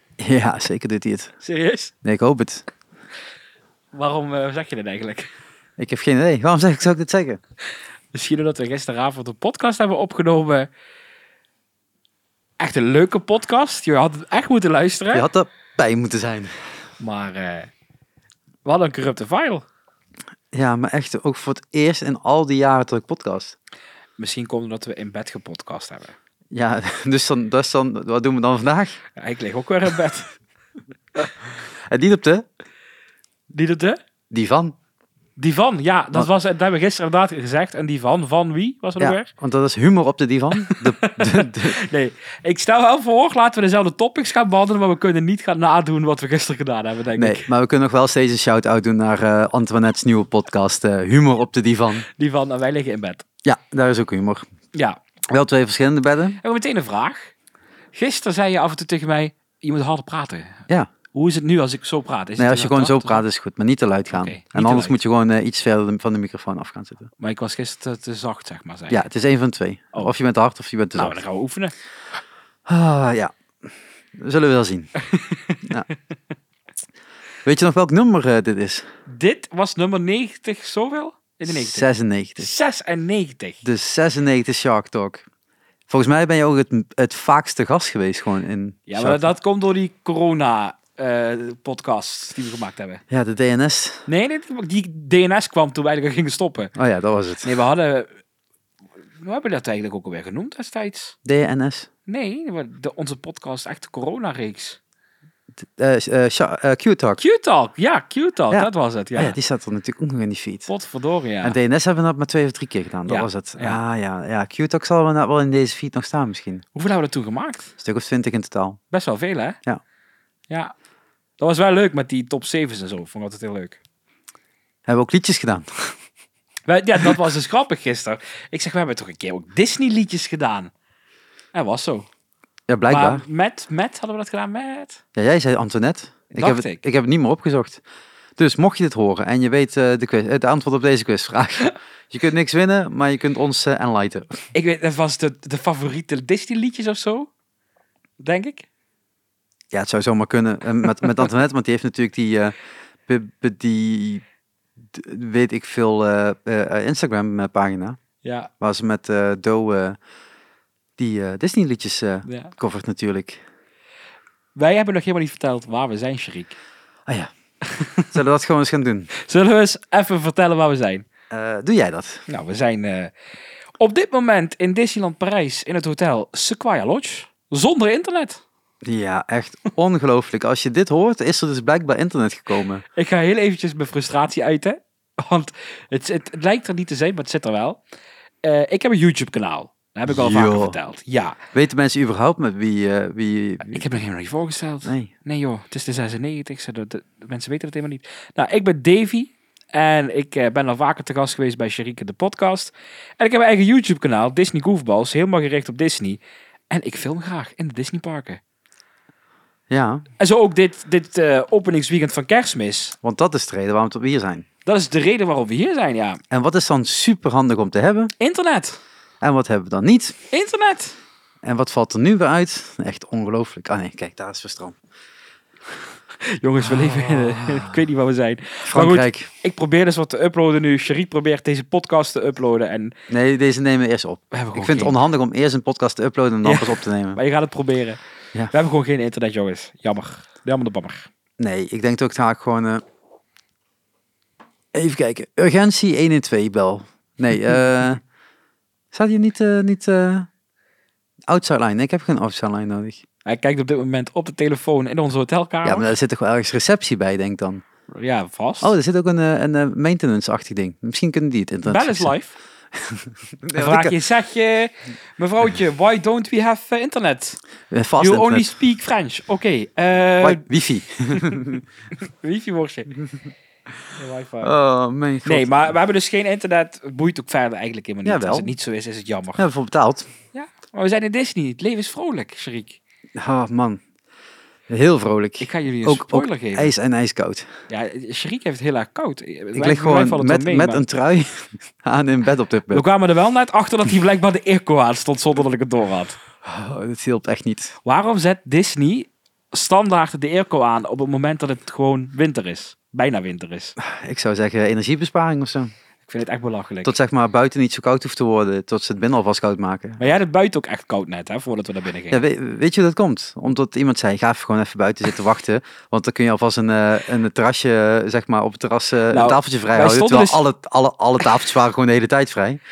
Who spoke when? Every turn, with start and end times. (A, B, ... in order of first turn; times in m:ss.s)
0:00.2-0:01.3 A
0:01.4-0:01.9 B
0:02.0-0:02.6 A
0:03.9-0:05.3 B
0:05.8-0:07.4 A
0:08.1-0:10.7 B
0:12.6-0:15.3 B
0:15.1-0:16.5 A
0:17.0-0:17.7 B
0:18.6-0:19.6 B
0:20.5-0:23.6 A
0:24.2-0:26.2 B
0:26.5-0:29.0 A
0:29.2-0:30.3 B
0:31.8-0:32.4 A
0:33.5-0:34.0 B
0:34.3-0:34.7 A
0:35.4-0:39.3 B
0:39.0-0:41.8 A
0:40.6-0:47.5 B
0:47.2-0:52.0 A
0:52.0-0:53.2 B
0:53.4-0:54.4 A
0:54.7-0:55.0 B
0:55.3-0:56.4 A
0:56.4-0:57.3 B
0:57.9-1:03.2 B
1:02.4-1:07.1 A
1:04.1-1:05.0 B
1:07.2-1:09.0 B
1:08.9-1:11.2 A
1:11.0-1:11.7 B
1:12.6-1:13.3 A
1:14.2-1:14.9 A
1:15.1-1:15.7 B
1:17.4-1:18.8 A
1:19.1-1:21.9 B
1:21.5-1:22.5 A
1:22.4-1:23.6 B
1:23.6-1:25.2 A
1:25.9-1:29.2 A
1:28.9-1:33.0 B
1:33.1-1:34.0 A
1:34.1-1:36.7 B
1:36.8-1:37.5 A
1:37.4-1:38.1 B
1:39.2-1:41.1 B
1:41.2-1:41.9 A
1:42.1-1:44.8 B
1:45.6-1:47.2 A
1:47.2-1:49.4 B
1:48.5-1:50.7 A
1:50.7-1:51.6 B
1:51.4-1:56.6 A
1:53.1-1:53.8 B
1:56.7-1:57.7 B
1:57.8-1:58.8 A
1:58.9-1:59.6 B
2:01.4-2:03.8 B
2:04.9-2:06.0 A
2:06.7-2:10.7 B
2:11.5-2:12.1 B
2:12.7-2:13.2 A
2:12.9-2:15.0 B
2:15.1-2:17.8 A
2:16.3-2:16.8 B
2:18.4-2:24.4 A
2:24.5-2:27.3 B
2:28.2-2:28.7 B
2:29.7-2:32.6 A
2:33.1-2:34.2 A
2:34.9-2:38.0 A
2:38.2-2:38.5 B
2:38.6-2:40.0 A
2:41.0-2:43.4 A
2:42.2-2:42.5 B
2:44.6-2:46.6 B
2:47.0-2:47.3 A
2:47.7-2:48.1 B
2:48.1-2:49.1 A
2:49.1-2:51.0 B
2:51.3-2:52.2 A
2:52.3-2:53.1 B
2:53.8-2:58.4 B
2:58.8-3:02.8 A
3:02.9-3:07.8 B
3:08.4-3:11.4 B
3:10.1-3:10.8 A
3:11.5-3:13.8 A
3:13.6-3:28.4 B
3:14.8-3:15.1 A
3:29.7-3:30.0 A
3:30.2-3:32.9 B
3:33.0-3:34.4 A
3:34.6-3:36.2 B
3:36.3-3:38.1 A
3:38.2-3:38.8 B
3:39.2-3:40.2 A
3:40.3-3:41.0 B
3:41.4-3:44.8 A
3:46.2-3:52.9 B
3:46.6-3:47.8 A
3:48.6-3:49.3 A
3:53.1-3:57.2 A
3:54.3-3:55.0 B
3:56.4-3:58.0 B
3:58.5-4:01.1 B
4:01.4-4:02.8 A
4:04.7-4:08.0 A
4:08.9-4:10.3 A
4:11.3-4:13.0 A
4:13.2-4:15.9 B
4:15.6-4:17.6 A
4:17.9-4:18.7 B
4:18.6-4:22.1 A
4:21.6-4:22.4 B
4:22.7-4:24.0 A
4:23.5-4:27.4 B
4:27.7-4:28.6 A
4:28.0-4:30.4 B
4:30.2-4:31.6 A
4:31.1-4:33.0 B
4:33.9-4:34.5 B
4:34.4-4:35.7 A
4:35.2-4:39.5 B
4:38.0-4:38.5 A
4:39.4-4:40.1 A
4:40.3-4:42.8 B
4:43.2-4:43.8 A
4:44.7-4:47.5 A
4:45.4-4:46.7 B
4:47.7-4:50.8 B
4:49.5-4:52.8 A
4:52.7-4:56.2 B
4:56.4-4:57.8 A
4:57.8-5:03.8 B
5:03.8-5:05.7 A
5:06.0-5:07.0 B
5:06.8-5:10.0 A
5:10.0-5:12.2 B
5:12.1-5:22.6 A
5:19.1-5:20.4 B